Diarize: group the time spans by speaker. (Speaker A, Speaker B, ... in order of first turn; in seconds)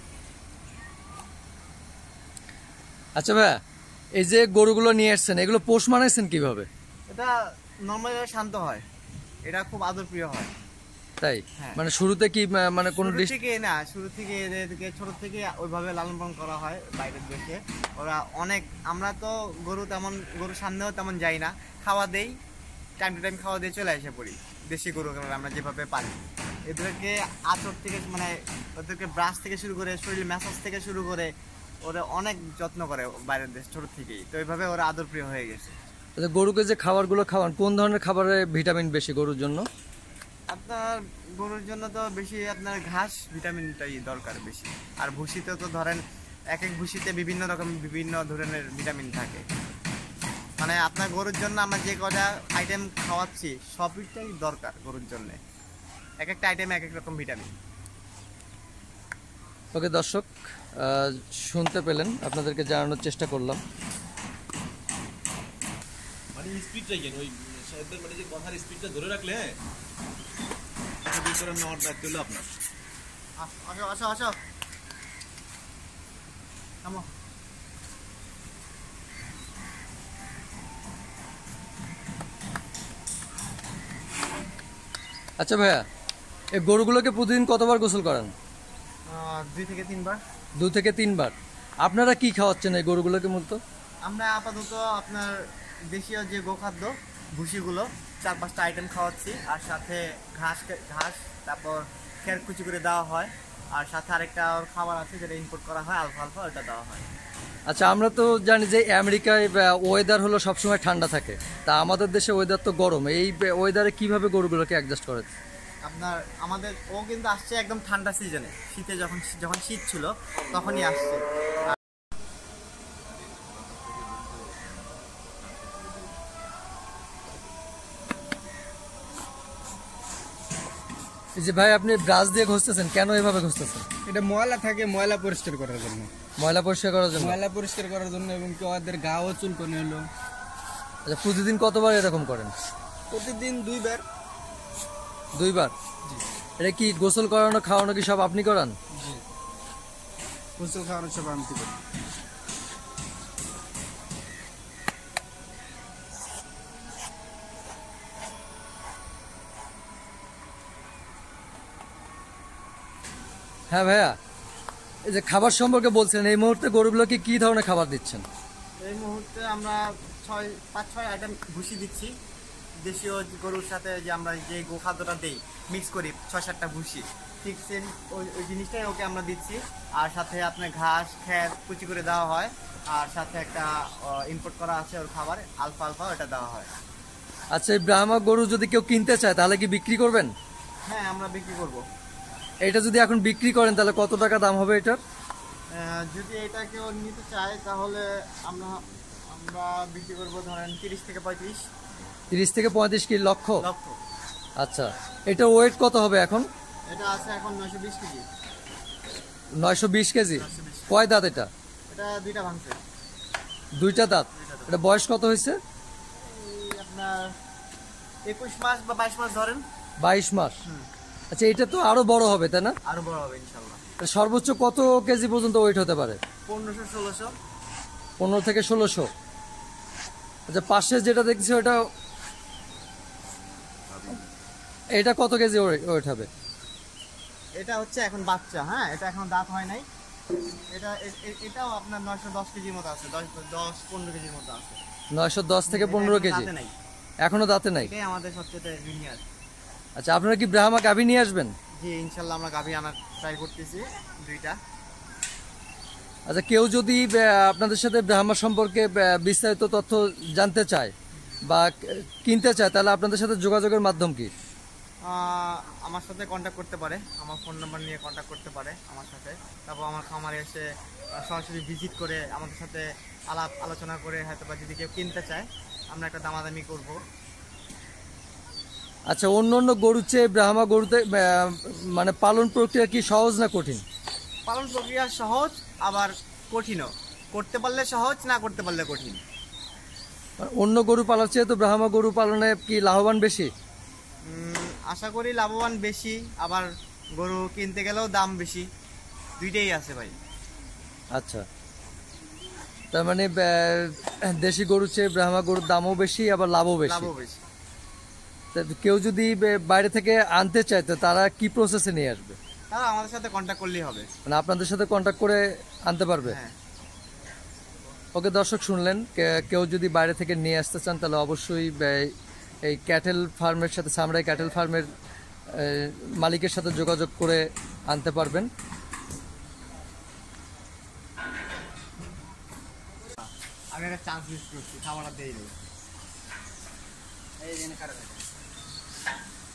Speaker A: 3.2-3.6, 4.2-6.7, 11.2-13.3, 36.2-39.6, 59.7-63.6, 85.4-85.8, 86.6-88.3, 90.6-93.6, 107.7-115.3, 131.4-133.8, 136.4-137.4, 141.1-142.5, 145.4-145.7, 146.6-148.8, 163.7-164.2, 165.1-168.2, 187.5-190.3, 192.7-195.0, 202.3-203.6, 204.6-206.5, 209.6-211.5, 213.8-215.6, 220.0-220.6, 221.3-222.8, 224.0-226.2, 228.2-229.1, 230.5-231.8, 235.0-236.3, 245.1-246.5, 247.2-247.9, 250.0-251.5, 256.3-260.9, 261.5-264.3, 279.1-283.8, 290.4-293.5, 301.1-301.5, 302.9-307.1, 308.5-312.4, 314.3-316.4, 318.1-322.1, 322.7-324.9, 325.5-328.5
Speaker B: 7.1-7.3, 7.9-8.8, 9.5-10.5, 13.0-22.4, 23.0-31.3, 31.8-35.8, 40.5-46.0, 46.5-49.5, 50.6-55.4, 56.2-57.5, 73.4-74.4, 89.1-90.2, 94.0-95.4, 95.9-107.1, 115.8-121.2, 168.8-172.1, 172.8-186.7, 190.9-191.8, 195.7-201.6, 203.6-204.0, 206.9-208.2, 210.3-210.9, 211.9-212.8, 214.3-214.8, 216.1-217.3, 218.3-219.6, 222.8-223.8, 226.5-227.3, 237.6-239.9, 240.7-244.8, 245.7-246.7, 247.8-249.2, 251.8-254.6, 265.0-277.0, 284.5-289.2, 294.2-298.7, 299.4-300.1, 306.9-307.4, 312.7-314.1, 316.2-316.6, 333.7-335.6
Speaker C: 66.3-69.6, 71.0-72.5, 123.2-124.9, 125.4-126.1
Speaker D: 134.1-136.1, 137.2-140.0, 143.1-144.0, 148.9-149.2, 150.6-151.8, 337.4-338.3